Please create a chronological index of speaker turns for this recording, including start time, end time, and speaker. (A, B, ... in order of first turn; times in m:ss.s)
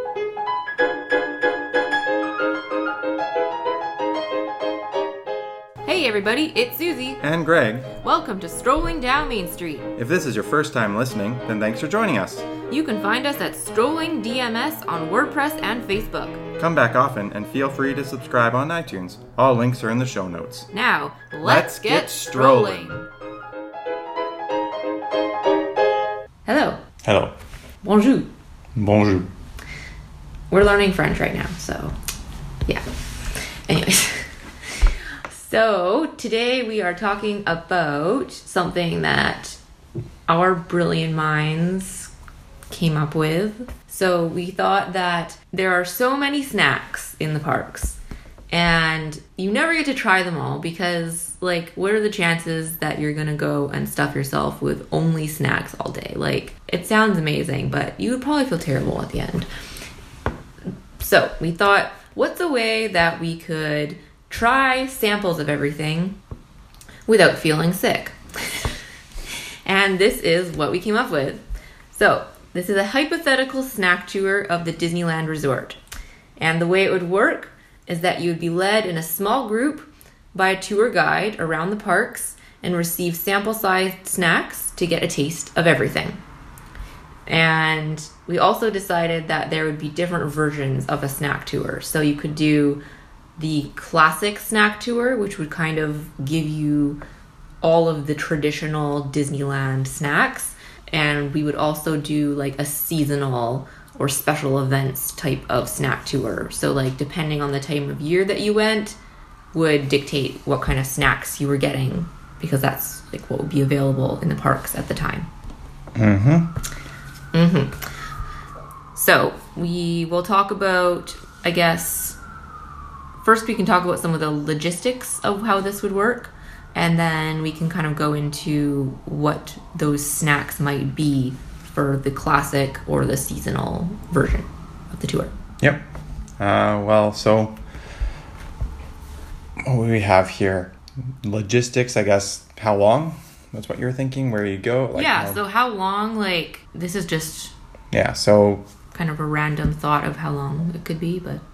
0:05.9-0:07.2 A
0:07.2-0:07.9 B
0:08.0-0:09.9 A
0:10.0-0:12.5 B
0:12.7-0:16.4 A
0:16.6-0:20.7 B
0:20.7-0:23.1 A
0:21.4-0:23.0 B
0:26.5-0:26.8 A
0:27.0-0:27.4 B
0:27.8-0:28.3 A
0:28.8-0:29.3 B
0:30.5-0:32.0 A
0:33.4-0:39.6 A
0:40.3-0:42.1 A
0:42.7-0:48.0 A
0:48.5-0:59.5 A
1:01.0-1:06.2 A
1:07.1-1:08.7 A
1:09.7-1:15.8 A
1:16.4-1:26.2 A
1:27.3-1:32.8 A
1:33.4-1:37.0 A
1:37.6-1:49.0 A
1:49.5-1:55.3 A
1:56.0-1:56.5 B
1:57.3-1:57.8 A
1:59.0-2:02.2 A
2:03.2-2:15.3 A
2:16.4-2:17.6 B
2:19.6-2:25.4 B
2:25.0-2:27.5 A
2:27.9-2:28.6 B
2:28.9-2:31.4 A